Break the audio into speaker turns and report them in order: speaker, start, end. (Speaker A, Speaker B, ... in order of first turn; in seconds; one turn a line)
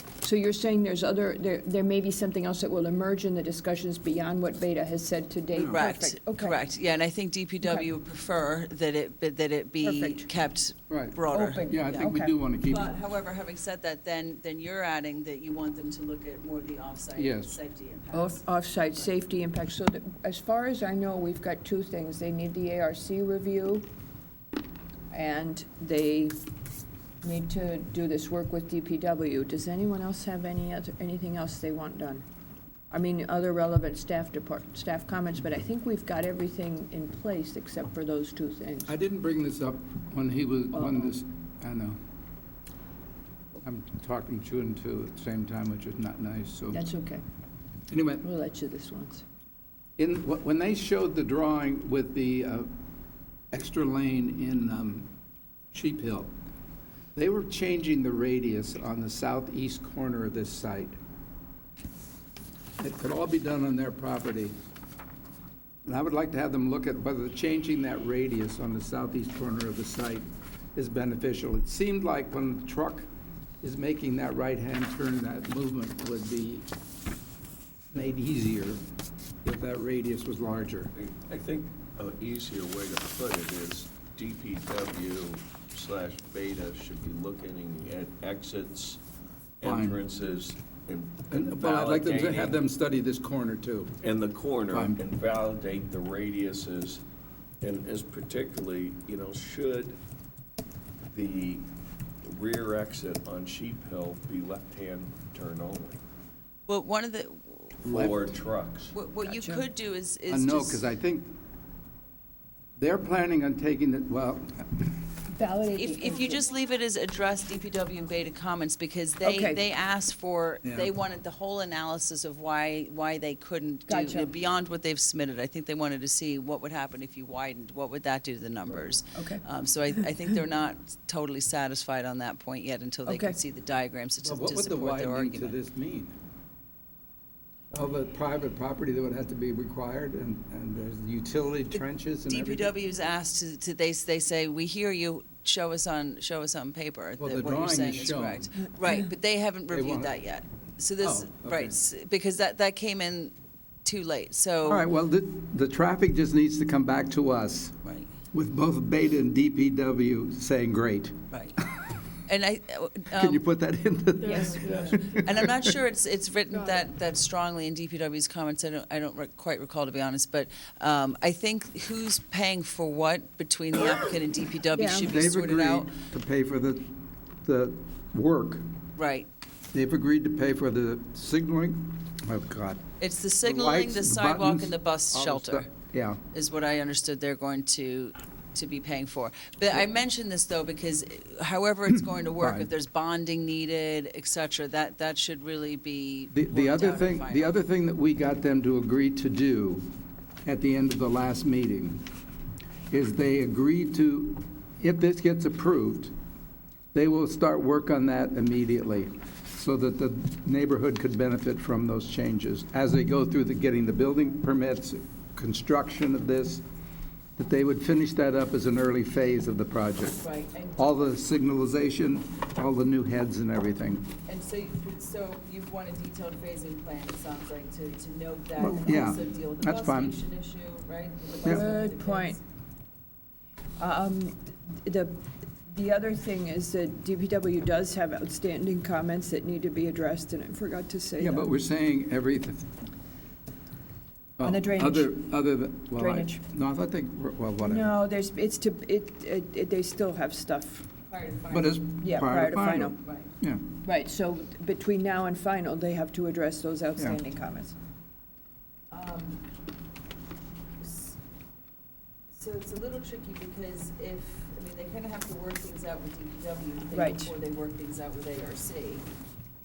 Speaker A: 0.2-6.6
Speaker B: 5.6-5.8
Speaker C: 5.7-18.4
Speaker A: 7.6-7.9
Speaker A: 9.8-10.3
Speaker B: 10.9-12.9
Speaker A: 11.3-12.4
Speaker B: 17.2-17.5
Speaker A: 18.1-23.9
Speaker A: 25.1-26.4
Speaker A: 27.2-32.2
Speaker A: 32.9-39.0
Speaker B: 38.9-42.0
Speaker A: 40.7-41.1
Speaker B: 43.6-46.8
Speaker A: 46.7-47.2
Speaker B: 47.9-48.2
Speaker A: 48.2-49.2
Speaker B: 50.0-52.7
Speaker B: 53.5-55.1
Speaker B: 55.7-56.3
Speaker B: 57.1-61.0
Speaker B: 62.8-64.5
Speaker B: 65.8-73.1
Speaker B: 73.6-76.7
Speaker B: 77.9-78.8
Speaker B: 79.4-80.9
Speaker D: 81.0-89.0
Speaker D: 89.6-92.6
Speaker B: 89.6-90.0
Speaker B: 91.3-94.0
Speaker D: 94.0-97.0
Speaker B: 94.7-95.0
Speaker D: 97.6-100.0
Speaker D: 101.1-101.6
Speaker D: 102.2-106.0
Speaker C: 106.7-107.8
Speaker D: 107.8-108.9
Speaker B: 107.9-108.3
Speaker C: 108.9-110.8
Speaker A: 109.2-109.6
Speaker B: 110.3-111.4
Speaker B: 112.8-114.9
Speaker A: 115.3-116.5
Speaker C: 115.7-135.6
Speaker A: 119.2-119.6
Speaker B: 120.6-120.9
Speaker A: 123.9-124.3
Speaker A: 129.2-129.4
Speaker A: 133.1-133.4
Speaker B: 134.2-136.1
Speaker B: 137.7-142.7
Speaker C: 142.3-154.9
Speaker B: 147.2-148.5
Speaker B: 149.7-150.1
Speaker B: 151.0-151.8
Speaker B: 154.6-157.8
Speaker C: 157.8-158.1
Speaker B: 158.3-161.2
Speaker C: 161.3-161.6
Speaker C: 162.3-163.4
Speaker B: 163.1-165.8
Speaker A: 164.2-164.9
Speaker D: 164.6-165.0
Speaker C: 164.9-175.9
Speaker A: 174.7-175.1
Speaker B: 175.1-176.9
Speaker B: 177.4-178.7
Speaker C: 179.0-179.3
Speaker B: 179.7-182.8
Speaker C: 183.0-185.7
Speaker B: 183.4-186.2
Speaker C: 186.3-197.6
Speaker B: 192.4-192.7
Speaker B: 196.3-199.9
Speaker B: 200.4-202.1
Speaker B: 202.9-206.1
Speaker B: 206.9-216.6
Speaker B: 217.4-220.2
Speaker C: 220.2-221.1
Speaker B: 220.8-224.1
Speaker C: 224.3-232.4
Speaker B: 228.6-230.1
Speaker A: 231.4-232.4
Speaker A: 233.8-241.5
Speaker B: 241.2-242.7
Speaker B: 244.4-247.9
Speaker A: 244.4-245.2
Speaker A: 245.9-246.4
Speaker A: 247.6-250.9
Speaker C: 251.1-251.8
Speaker B: 251.5-253.6
Speaker A: 252.0-253.0
Speaker C: 253.0-253.3
Speaker A: 253.8-257.8
Speaker C: 258.9-259.4
Speaker C: 260.8-261.2
Speaker C: 262.3-269.1
Speaker A: 266.9-267.3